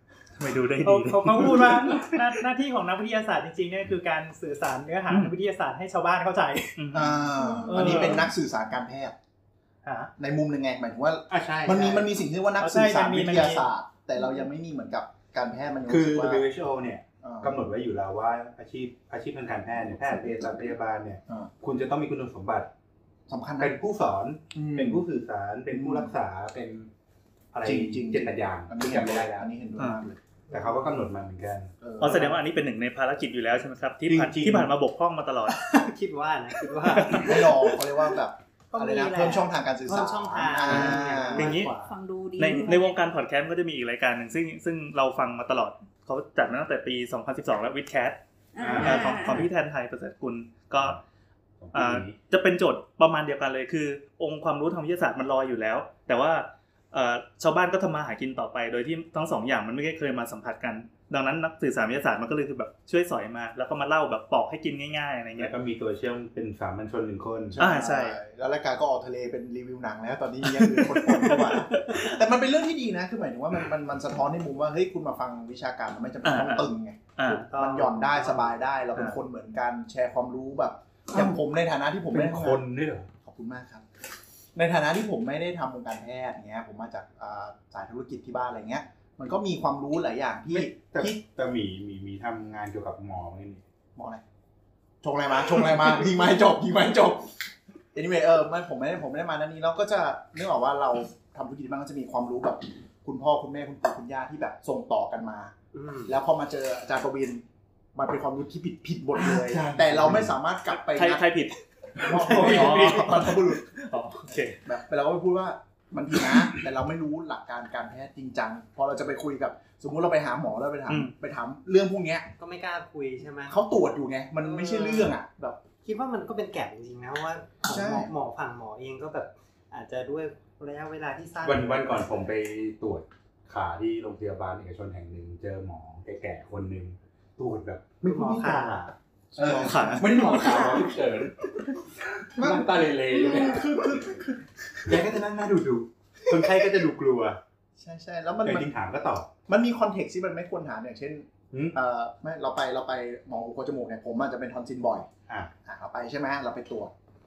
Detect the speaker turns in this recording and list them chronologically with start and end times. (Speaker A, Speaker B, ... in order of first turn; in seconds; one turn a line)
Speaker A: 0.4-2.3
Speaker B: 0.8-6.8
Speaker A: 5.1-5.3
Speaker A: 6.8-7.3
Speaker C: 6.9-9.2
Speaker D: 7.4-8.1
Speaker B: 7.7-8.2
Speaker B: 9.8-10.1
Speaker C: 10.2-16.4
Speaker E: 11.3-12.1
Speaker B: 12.6-13.6
Speaker E: 15.9-22.7
Speaker C: 17.2-17.6
Speaker C: 23.3-23.8
Speaker E: 23.6-26.9
Speaker C: 24.5-25.0
Speaker C: 25.7-26.1
Speaker E: 27.5-29.5
Speaker C: 27.6-30.2
Speaker F: 30.5-31.1
Speaker E: 30.5-32.2
Speaker C: 31.8-32.3
Speaker A: 32.0-35.7
Speaker E: 34.0-34.7
Speaker F: 35.5-37.5
Speaker A: 36.9-37.5
Speaker C: 37.1-41.5
Speaker F: 38.7-42.0
Speaker A: 40.7-41.7
Speaker D: 41.8-43.0
Speaker A: 42.4-48.2
Speaker D: 48.5-49.5
Speaker E: 48.6-49.2
Speaker A: 48.8-51.0
Speaker F: 48.9-49.4
Speaker E: 51.6-52.1
Speaker A: 51.7-65.5
Speaker E: 65.4-67.6
Speaker C: 67.5-82.6
Speaker A: 67.6-68.2
Speaker A: 70.4-72.1
Speaker A: 76.2-77.5
Speaker F: 77.2-78.5
Speaker E: 82.1-83.1
Speaker C: 83.2-83.8
Speaker C: 84.5-91.2
Speaker E: 90.5-93.6
Speaker C: 94.0-94.2
Speaker C: 95.0-97.3
Speaker C: 97.9-105.5
Speaker F: 105.7-106.1
Speaker C: 106.0-107.4
Speaker C: 107.9-111.2
Speaker E: 109.1-110.3
Speaker A: 110.8-111.6
Speaker C: 112.0-113.7
Speaker F: 112.1-112.9
Speaker A: 112.2-114.6
Speaker E: 112.3-112.7
Speaker C: 114.6-122.3
Speaker A: 120.9-121.1
Speaker F: 122.4-123.6
Speaker C: 123.5-125.6
Speaker F: 124.4-125.1
Speaker F: 125.8-132.3
Speaker C: 127.6-128.1
Speaker E: 131.4-144.2
Speaker F: 138.0-138.9
Speaker C: 139.3-140.1
Speaker A: 139.4-140.7
Speaker D: 140.1-141.0
Speaker C: 142.4-145.0
Speaker E: 144.8-147.4
Speaker C: 146.3-146.8
Speaker C: 147.8-148.7
Speaker E: 148.4-149.3
Speaker C: 149.5-155.1
Speaker E: 151.5-151.8
Speaker C: 155.6-156.9